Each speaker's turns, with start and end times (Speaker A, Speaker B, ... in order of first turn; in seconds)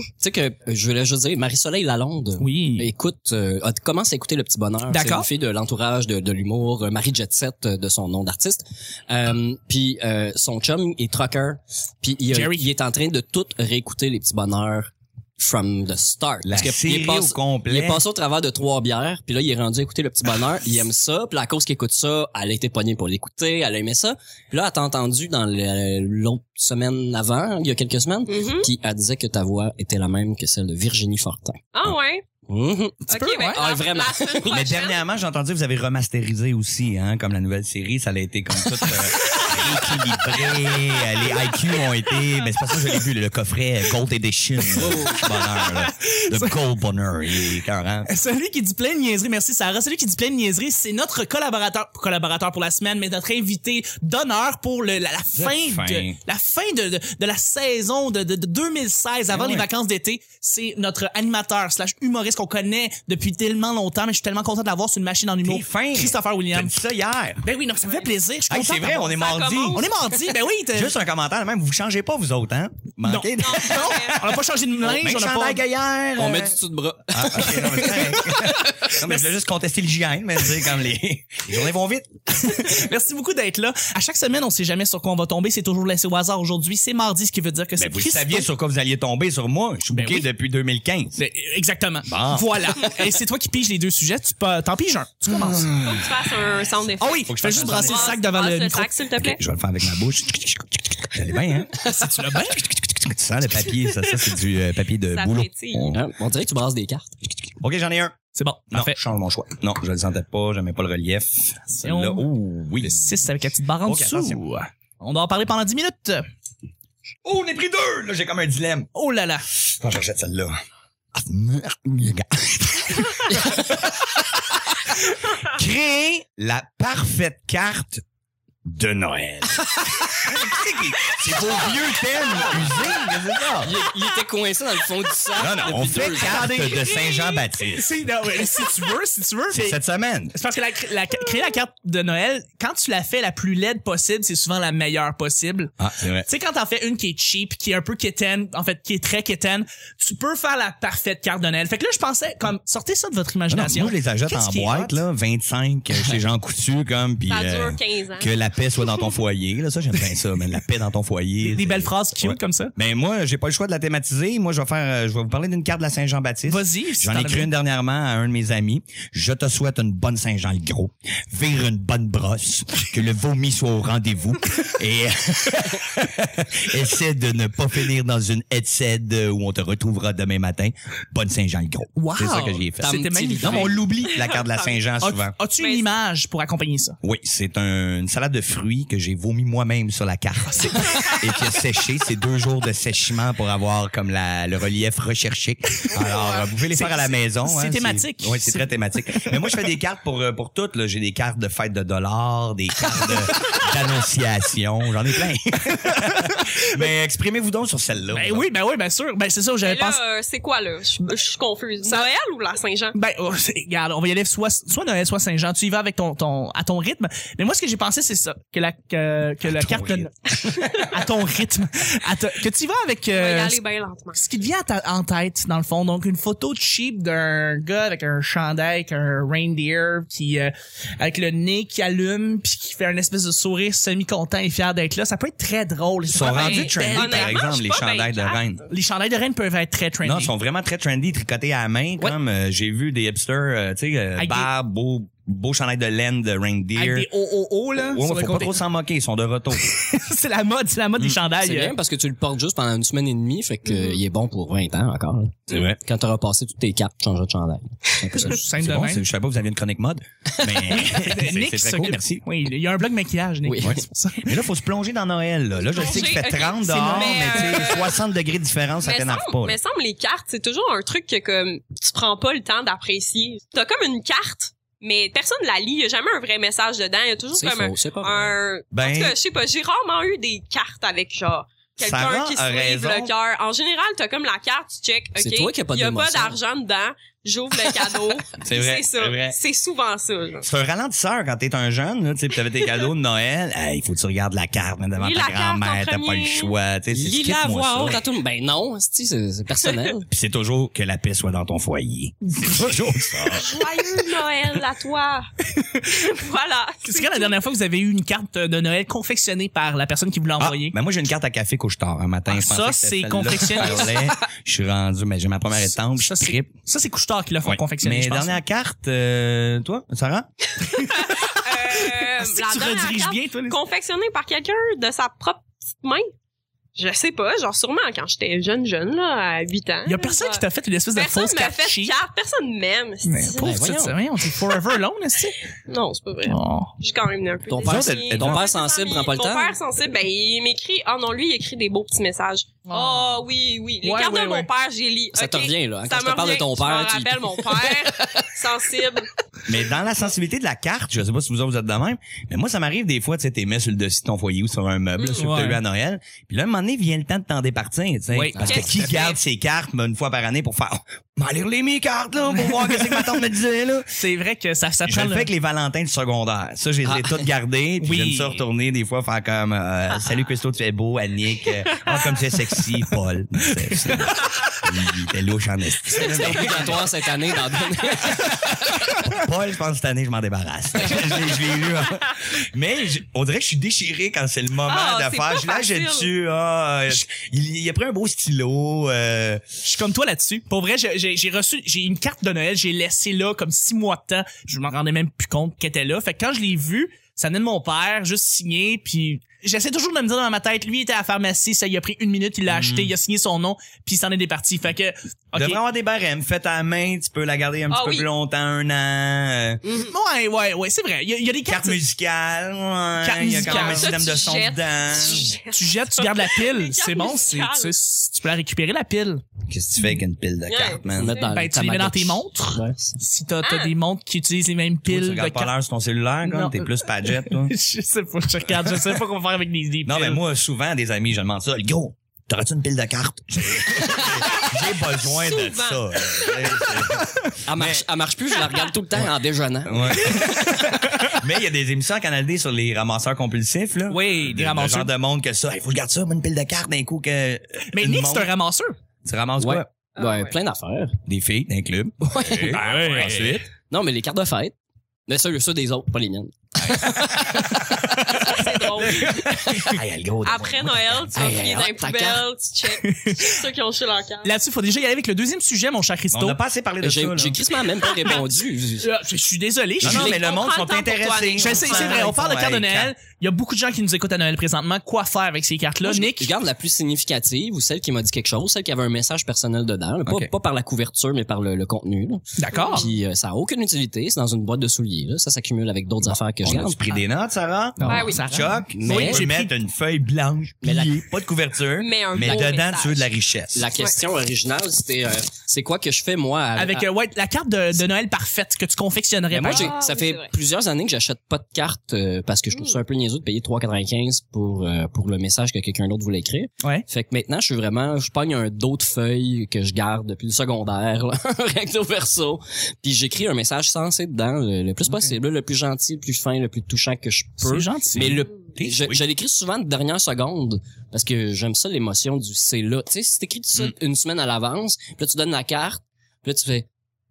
Speaker A: 0.2-31.6, 32.5-34.7, 44.8-45.2, 76.2-78.5, 105.9-107.1, 123.3-123.6, 132.4-132.7, 133.6-136.7, 182.8-183.8, 251.4-257.8, 260.4-260.7, 263.4-263.8, 277.3-278.4, 285.2-286.4, 287.7-288.0, 296.9-300.1, 333.4-334.0, 337.5-339.6, 345.1-349.0, 358.4-358.7, 366.9-367.2, 375.9-378.9, 420.9-422.9, 437.4-440.5, 449.4-451.0, 452.0-452.6, 453.7-454.6, 455.1-459.8, 461.1-462.3, 466.8-468.9, 469.8-470.2, 475.8-487.0, 488.8-489.3, 490.6-491.0, 492.2-492.5, 493.5-496.9, 499.3-526.7
Speaker B: 2.4-2.9, 4.9-5.3, 12.3-12.7, 33.1-33.6, 38.7-40.0, 44.7-46.5, 48.1-66.7, 67.4-69.1, 69.7-70.9, 73.0-75.6, 77.9-79.2, 82.4-88.5, 89.9-90.3, 91.2-95.7, 97.0-99.0, 101.8-102.7, 108.3-109.0, 111.8-112.3, 112.8-116.3, 119.0-119.5, 136.1-139.8, 140.3-145.7, 146.3-155.0, 161.4-162.7, 166.5-167.5, 182.0-183.8, 185.0-187.0, 190.5-191.2, 196.7-199.4, 205.7-206.6, 208.1-210.0, 211.8-212.1, 212.9-223.6, 224.2-237.4, 238.7-240.3, 244.2-244.5, 246.8-248.6, 249.6-251.8, 258.1-259.0, 260.7-264.3, 265.8-267.8, 305.6-306.1, 306.8-310.8, 312.3-314.0, 315.7-318.4, 320.8-323.6, 329.9-331.9, 333.1-335.4, 336.3-336.7, 342.7-343.2, 343.8-344.5, 355.1-355.6, 358.1-358.6, 362.4-363.1, 363.9-365.3, 367.8-368.4, 373.7-374.0, 389.6-405.6, 409.8-411.8, 413.0-413.9, 415.5-419.2, 421.2-425.5, 426.2-430.2, 440.1-440.9, 443.9-444.9, 447.7-448.7, 452.5-453.4, 462.7-463.4, 464.2-466.4, 468.8-470.1, 471.4-476.3, 482.4-482.9, 487.8-489.5, 496.6-499.8, 517.4-518.2
Speaker C: 16.4-18.0, 34.5-48.1, 55.4-56.2, 59.3-59.7, 65.4-67.4, 68.5-69.9, 70.7-74.2, 74.8-76.6, 77.1-82.7, 87.8-91.2, 92.1-92.9, 95.3-96.2, 97.3-98.2, 99.2-101.9, 102.5-106.0, 107.6-108.2, 108.7-113.2, 113.9-114.4, 117.2-118.9, 119.6-120.6, 121.2-124.1, 125.3-128.0, 128.7-133.8, 135.4-137.9, 139.5-140.3, 145.8-146.3, 153.5-185.3, 187.0-208.4, 219.4-220.1, 236.1-238.7, 240.0-247.1, 247.8-249.8, 255.5-255.8, 258.0-262.2, 263.6-269.6, 278.7-279.2, 281.8-283.1, 288.4-289.4, 290.4-298.0, 300.1-303.6, 310.4-316.5, 317.4-320.3, 337.6-338.4, 349.5-364.0, 364.9-376.9, 378.9-389.4, 402.5-402.9, 405.4-409.6, 411.4-415.3, 419.5-421.2, 424.9-427.5, 429.9-437.9, 439.6-448.3, 449.0-449.7, 451.1-453.5, 456.6-457.1, 458.9-461.6, 466.1-467.4, 469.8-472.9, 480.1-480.3, 486.4-493.7, 518.6-519.0
Speaker D: 28.3-28.7, 31.7-32.2, 33.1-35.0, 69.0-69.9, 73.4-74.3, 95.8-99.4, 105.1-106.0, 157.3-158.3, 184.1-184.8, 185.6-185.9, 195.9-196.5, 209.6-213.0, 223.2-224.2, 236.2-238.4, 253.7-254.0, 265.6-268.0, 268.8-290.5, 295.0-296.5, 299.7-299.9, 303.4-305.3, 305.9-307.4, 320.7-326.1, 326.8-330.4, 330.9-333.6, 335.7-349.1, 355.0-355.3, 358.4-359.2, 371.8-372.2, 384.6-386.1, 407.7-408.1, 409.6-409.9, 413.4-417.7, 420.5-421.3, 423.4-423.7, 434.4-436.4, 450.0-450.4, 458.1-459.4, 460.2-464.3, 467.9-468.2, 470.0-472.0, 482.5-482.9, 487.9-488.2, 491.8-493.1, 499.4-500.3, 502.5-502.8